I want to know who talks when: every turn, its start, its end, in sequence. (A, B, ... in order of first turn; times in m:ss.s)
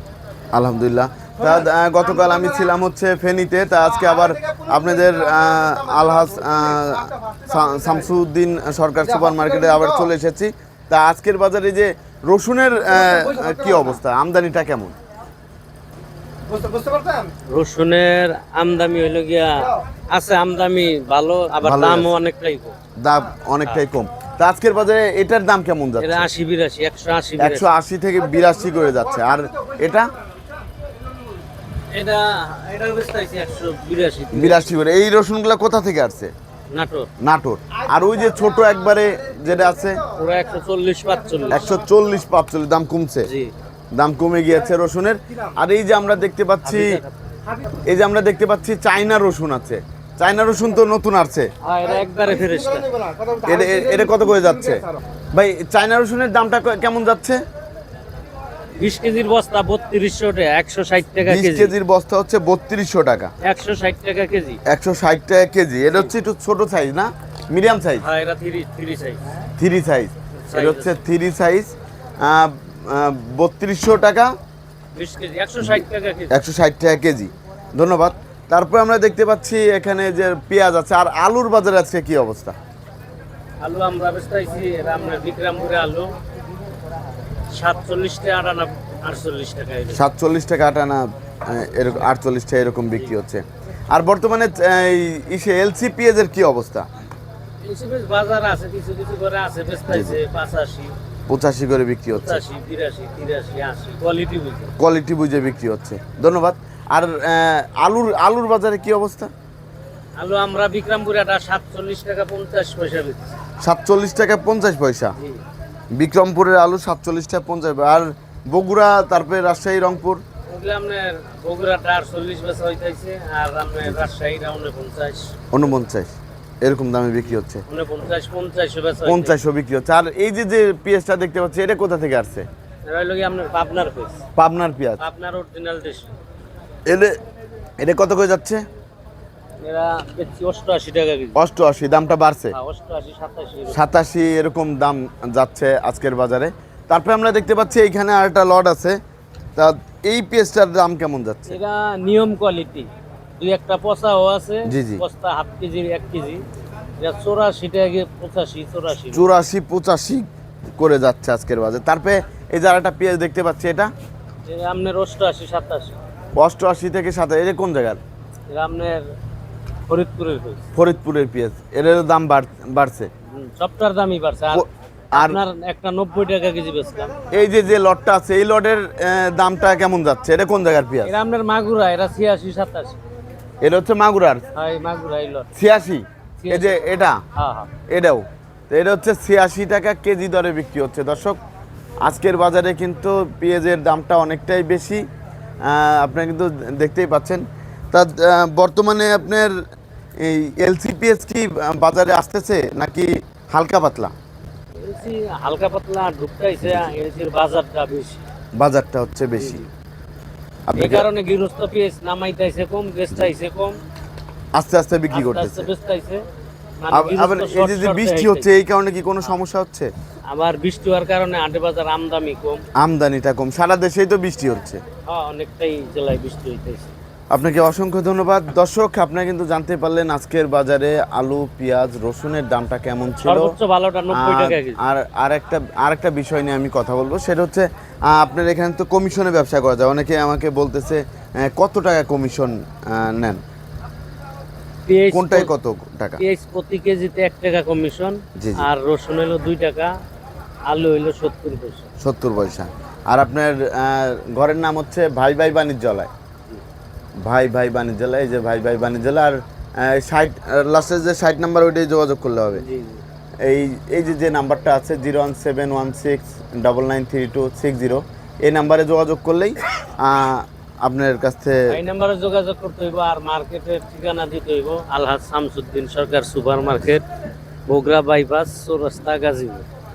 0:00.5-0:15.0 A
0:17.5-0:22.7 B
0:21.6-0:22.1 A
0:23.0-0:26.3 A
0:26.0-0:27.7 B
0:27.4-0:30.1 A
0:31.9-0:34.8 B
0:34.3-0:36.3 A
0:36.7-0:37.1 B
0:37.2-0:40.0 A
0:40.1-0:41.7 B
0:41.5-0:43.3 A
0:43.3-0:43.5 B
0:44.0-0:47.0 A
0:46.6-0:47.1 B
0:47.9-0:51.5 A
0:51.6-0:53.1 B
0:53.4-0:57.4 A
0:58.8-1:01.7 B
1:01.3-1:03.3 A
1:03.4-1:04.6 B
1:04.7-1:08.0 A
1:08.0-1:09.3 B
1:09.6-1:14.3 A
1:10.4-1:11.0 B
1:14.9-1:16.4 B
1:15.6-1:22.6 A
1:23.6-1:26.1 B
1:27.5-1:30.0 B
1:29.9-1:33.4 A
1:33.9-1:36.9 A
1:37.6-1:41.0 B
1:39.9-1:40.2 A
1:41.3-1:42.4 A
1:42.1-1:44.7 B
1:44.8-1:49.3 A
1:50.2-1:53.4 B
1:53.6-1:55.2 A
1:55.2-1:55.4 B
1:56.0-2:00.2 A
2:00.5-2:05.5 B
2:05.5-2:07.6 A
2:07.3-2:09.4 B
2:09.0-2:12.5 A
2:12.8-2:14.2 B
2:14.4-2:15.0 A
2:15.0-2:16.1 B
2:16.9-2:17.2 A
2:17.8-2:18.6 A
2:19.6-2:21.4 B
2:21.4-2:22.6 A
2:22.5-2:23.8 B
2:23.7-2:29.0 A
2:29.6-2:31.6 A
2:31.5-2:36.4 B
2:34.7-2:35.0 A
2:37.0-2:39.2 B
2:39.1-2:40.2 A
2:40.8-2:43.9 A
2:44.5-2:46.0 B
2:46.4-2:48.0 A
2:48.5-2:49.1 B
2:49.9-2:50.7 B
2:50.8-2:53.1 A
2:53.3-2:57.2 B
2:54.5-2:55.4 A
2:57.3-3:01.1 A
3:01.0-3:03.0 B
3:03.6-3:04.4 A
3:04.5-3:05.5 B
3:05.5-3:07.2 A
3:06.4-3:06.8 B
3:07.4-3:07.7 B
3:07.9-3:11.4 A
3:12.0-3:15.0 A
3:15.6-3:19.6 A
3:20.2-3:24.1 A
3:24.8-3:28.2 B
3:28.6-3:29.6 A
3:29.4-3:29.7 B
3:30.7-3:31.1 A
3:30.8-3:33.8 B
3:34.6-3:35.7 A
3:35.1-3:36.2 B
3:36.8-3:38.5 B
3:36.9-3:39.9 A
3:40.3-3:42.6 B
3:42.8-3:44.8 A
3:45.1-3:46.9 B
3:47.3-3:53.5 A
3:53.2-3:54.8 B
3:54.1-4:03.4 A
4:04.9-4:05.5 B
4:05.1-4:06.2 A
4:06.2-4:10.0 B
4:08.4-4:08.7 A
4:10.7-4:11.9 B
4:12.0-4:16.1 A
4:17.2-4:22.6 A
4:22.6-4:23.0 B
4:23.4-4:31.7 A
4:31.7-4:37.0 B
4:37.7-4:39.7 B